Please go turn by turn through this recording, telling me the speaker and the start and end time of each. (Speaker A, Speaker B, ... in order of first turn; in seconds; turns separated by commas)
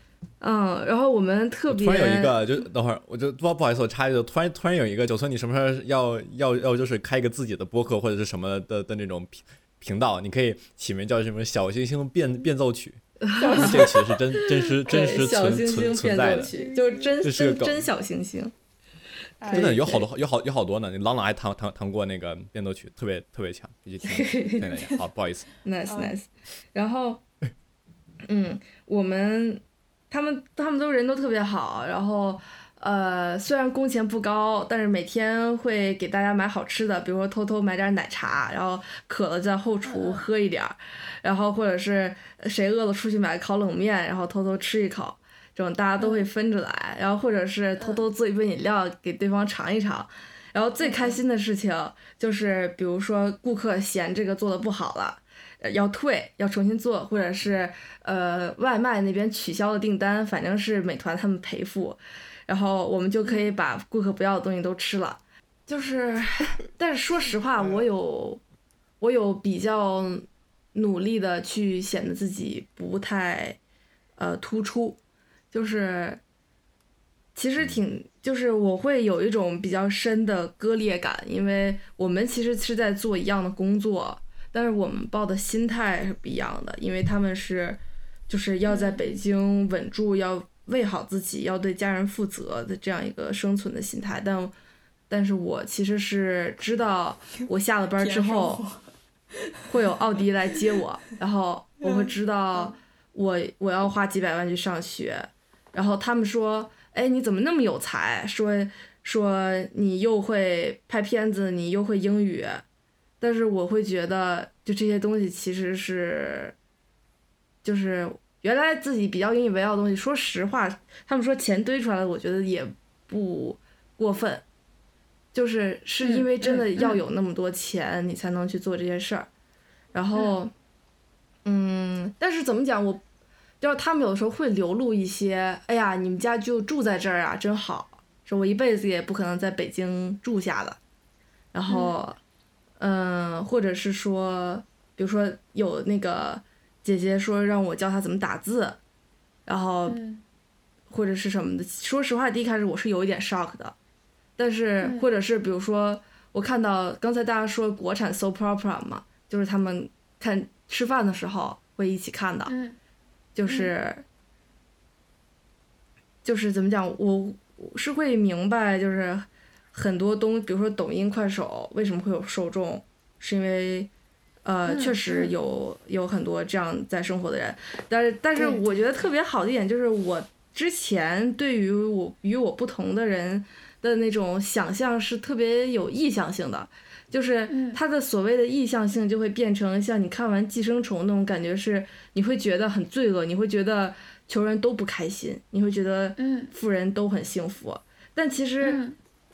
Speaker A: 0.4-2.4, Speaker B: 1.7-13.0, Speaker A: 13.2-18.5, Speaker C: 13.3-14.0, Speaker B: 13.5-16.5, Speaker C: 15.9-17.2, Speaker B: 17.2-17.9, Speaker C: 19.4-20.0, Speaker A: 19.4-20.0, Speaker B: 19.5-25.5, Speaker A: 24.0-24.7, Speaker C: 24.6-25.0, Speaker A: 25.6-27.2, Speaker C: 25.9-26.2, Speaker A: 28.2-68.4, Speaker C: 39.8-40.3, Speaker C: 46.0-46.3, Speaker C: 47.8-48.1, Speaker C: 50.8-51.2, Speaker C: 63.2-63.5, Speaker A: 69.0-73.6, Speaker A: 74.2-75.0, Speaker A: 75.5-76.2, Speaker A: 77.3-94.5, Speaker C: 88.7-89.2, Speaker A: 95.1-98.6, Speaker C: 98.0-98.8, Speaker A: 99.7-112.6, Speaker A: 113.2-116.5, Speaker A: 117.6-124.4, Speaker A: 125.3-129.3, Speaker C: 126.0-127.0, Speaker A: 129.9-130.5, Speaker A: 131.4-133.0, Speaker A: 133.6-140.8, Speaker A: 141.5-142.2, Speaker C: 141.7-142.0, Speaker A: 142.8-148.8, Speaker A: 149.4-150.0, Speaker C: 149.9-150.2, Speaker A: 150.9-153.7, Speaker A: 154.4-162.5, Speaker C: 154.8-155.1, Speaker C: 162.5-162.8, Speaker A: 163.3-164.0, Speaker C: 163.4-163.7, Speaker A: 166.2-173.9, Speaker A: 174.4-198.8, Speaker C: 174.7-175.3, Speaker C: 178.3-178.8, Speaker C: 187.5-187.8, Speaker C: 196.2-196.5, Speaker C: 198.6-198.9